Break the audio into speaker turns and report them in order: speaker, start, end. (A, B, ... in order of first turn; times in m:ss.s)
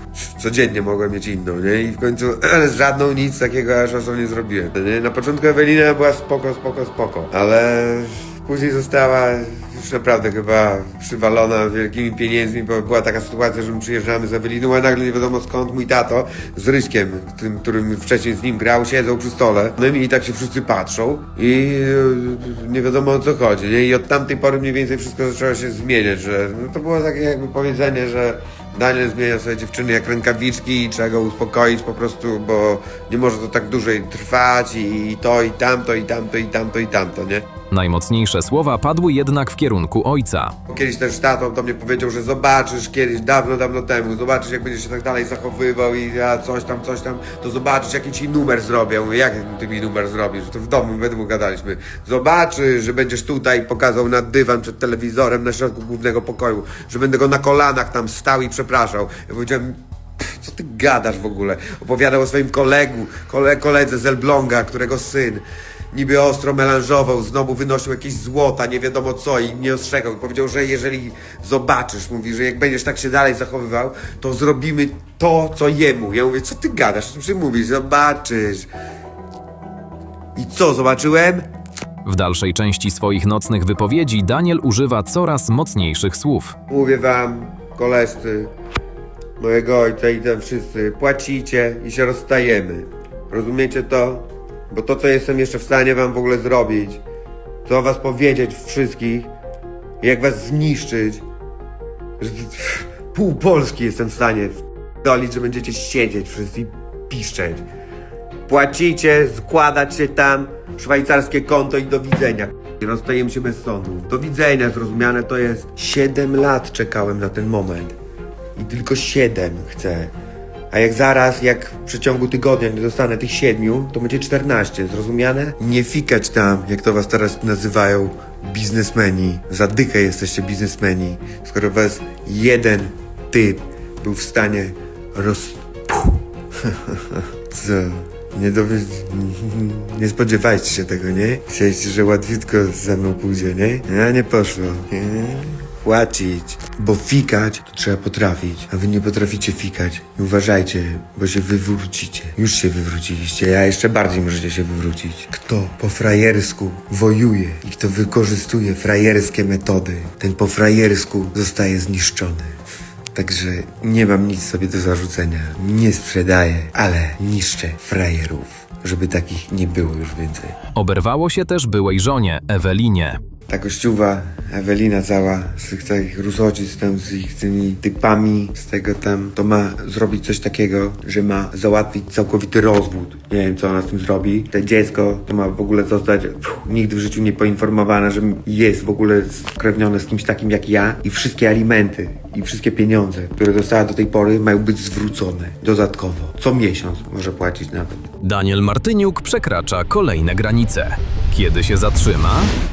0:00.1-0:37.5 A
0:37.7-0:40.5 B
0:40.7-1:18.7 A
1:20.4-1:21.4 A
1:22.0-1:26.5 B
1:26.7-1:28.5 A
1:29.4-1:37.0 A
1:37.6-1:39.3 A
1:40.0-1:41.2 A
1:42.2-1:47.6 A
1:48.5-1:57.9 A
1:58.6-2:00.1 A
2:00.7-2:42.5 A
2:43.1-2:50.6 A
2:50.7-2:53.2 B
2:53.5-3:18.1 A
3:18.2-3:22.5 B